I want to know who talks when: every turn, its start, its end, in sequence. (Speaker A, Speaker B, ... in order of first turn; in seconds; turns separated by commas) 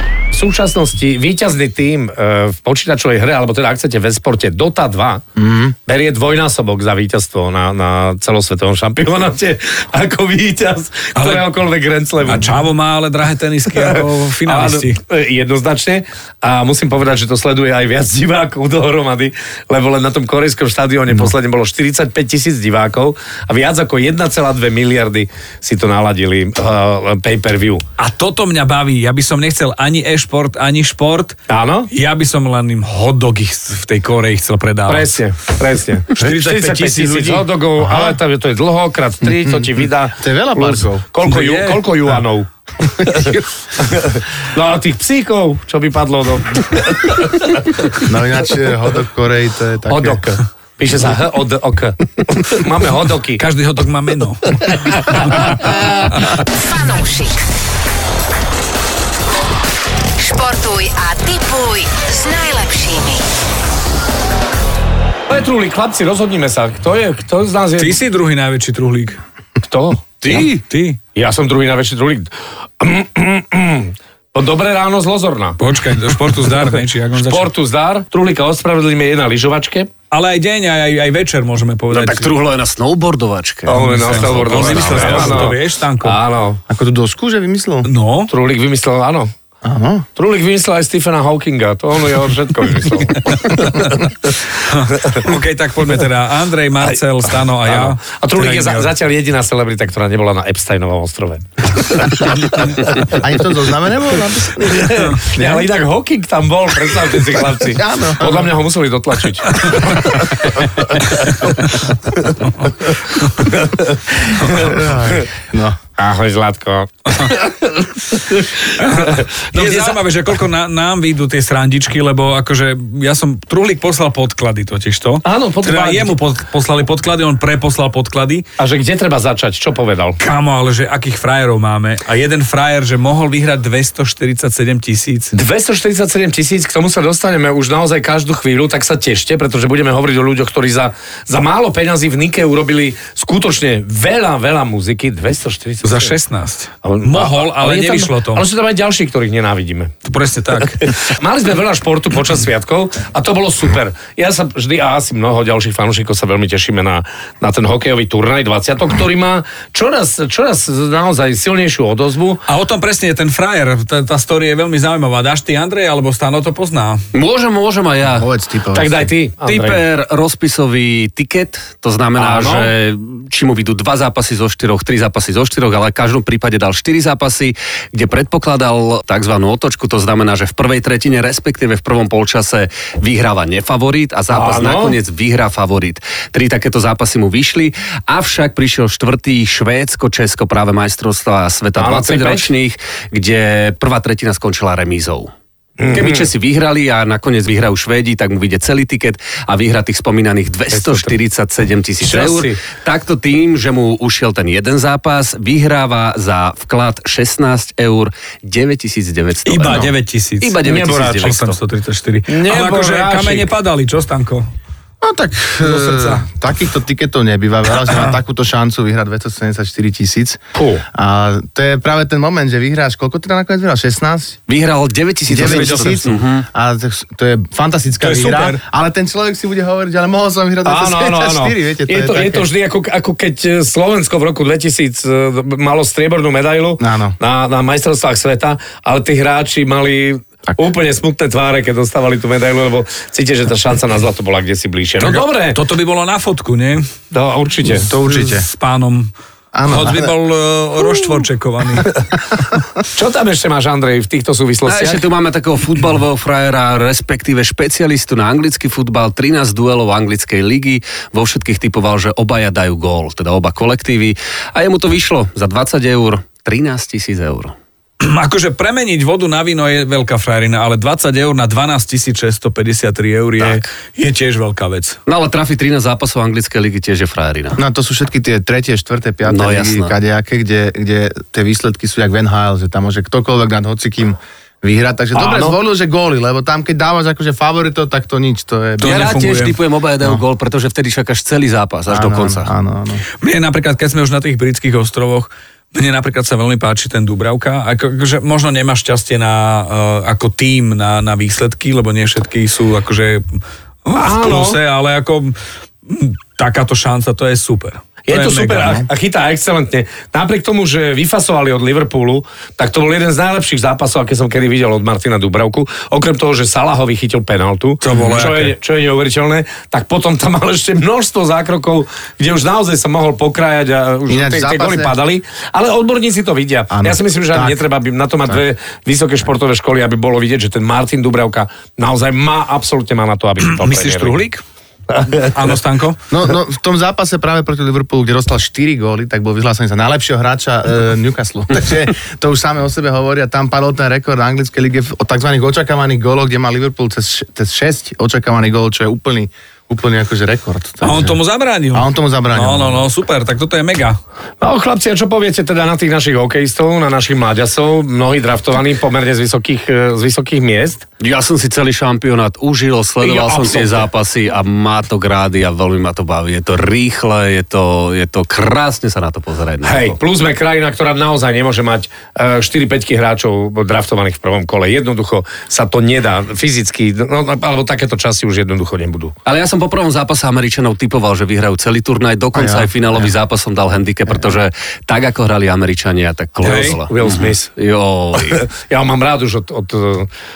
Speaker A: 0.3-5.2, Speaker B: 5.4-5.7, Speaker A: 5.9-12.5, Speaker C: 11.2-11.4, Speaker C: 12.2-15.0, Speaker A: 13.7-27.8, Speaker C: 28.0-31.4, Speaker A: 31.5-31.9, Speaker C: 31.9-35.1, Speaker A: 34.9-42.5, Speaker C: 36.1-37.4, Speaker B: 37.8-38.2, Speaker B: 39.3-41.0, Speaker C: 41.2-41.8, Speaker A: 43.0-48.0, Speaker B: 43.0-43.4, Speaker B: 48.0-50.2, Speaker A: 49.9-53.4, Speaker C: 53.4-55.5, Speaker A: 54.5-55.7, Speaker D: 55.5-57.4, Speaker D: 60.1-63.2, Speaker A: 65.3-68.0, Speaker C: 67.8-69.2, Speaker A: 69.6-70.5, Speaker C: 70.2-71.0, Speaker A: 71.1-79.9, Speaker C: 75.6-77.5, Speaker C: 80.1-82.3, Speaker E: 81.9-85.5, Speaker A: 83.7-86.6, Speaker C: 83.7-86.2, Speaker B: 86.7-87.9, Speaker C: 87.8-88.3, Speaker A: 88.3-89.3, Speaker B: 89.6-90.0, Speaker A: 90.2-94.3, Speaker C: 93.3-94.0, Speaker C: 94.6-98.9, Speaker A: 95.0-95.3, Speaker A: 97.6-103.2, Speaker B: 102.7-105.7, Speaker A: 104.6-112.7, Speaker B: 107.7-108.5, Speaker C: 111.4-111.6, Speaker A: 113.3-115.2, Speaker B: 114.4-115.8, Speaker A: 116.0-120.0, Speaker C: 118.7-128.4, Speaker A: 125.2-126.2, Speaker A: 128.6-130.2, Speaker C: 130.2-135.3, Speaker A: 135.3-146.2, Speaker C: 145.8-148.4, Speaker A: 146.8-149.9, Speaker C: 150.0-150.9, Speaker A: 150.8-162.4, Speaker C: 162.5-167.1, Speaker E: 167.1-168.3, Speaker B: 168.1-169.1, Speaker A: 168.7-169.8, Speaker E: 169.4-195.3, Speaker A: 172.2-172.7, Speaker A: 184.3-185.0, Speaker A: 191.8-192.5, Speaker A: 195.8-196.3, Speaker E: 195.9-211.6, Speaker A: 200.7-201.1, Speaker A: 202.0-202.6, Speaker C: 209.4-214.5, Speaker B: 209.6-209.9, Speaker A: 210.6-211.3, Speaker A: 212.3-213.5, Speaker B: 215.0-220.4, Speaker C: 215.6-216.2, Speaker A: 220.6-220.8, Speaker B: 220.9-224.4, Speaker E: 224.5-226.4, Speaker B: 225.3-232.5, Speaker C: 225.4-226.1, Speaker C: 228.0-228.6, Speaker A: 230.6-245.6, Speaker B: 236.8-237.2, Speaker C: 245.0-246.9, Speaker A: 247.1-247.9, Speaker B: 247.8-248.4, Speaker C: 248.0-249.1, Speaker B: 249.5-250.1, Speaker C: 249.7-251.9, Speaker A: 252.9-255.1, Speaker E: 254.7-267.5, Speaker C: 268.0-275.0, Speaker E: 275.1-277.6, Speaker B: 277.6-289.1, Speaker E: 279.3-279.9, Speaker A: 285.1-285.6, Speaker C: 288.8-289.6, Speaker E: 288.8-292.5, Speaker B: 291.9-293.0, Speaker C: 293.2-305.4, Speaker A: 303.9-304.6, Speaker C: 305.9-308.8, Speaker A: 308.1-334.2, Speaker C: 317.8-318.5, Speaker B: 324.1-324.9, Speaker B: 326.7-327.6, Speaker C: 333.4-334.4, Speaker A: 334.9-335.4, Speaker C: 335.1-336.0, Speaker B: 336.1-351.2, Speaker C: 350.8-354.0, Speaker B: 351.7-352.8, Speaker A: 354.4-360.8, Speaker E: 361.0-370.0, Speaker A: 363.0-363.9, Speaker A: 369.6-379.1, Speaker E: 379.3-388.4, Speaker B: 382.3-383.1, Speaker C: 386.4-386.8, Speaker A: 386.4-387.5, Speaker A: 388.1-390.1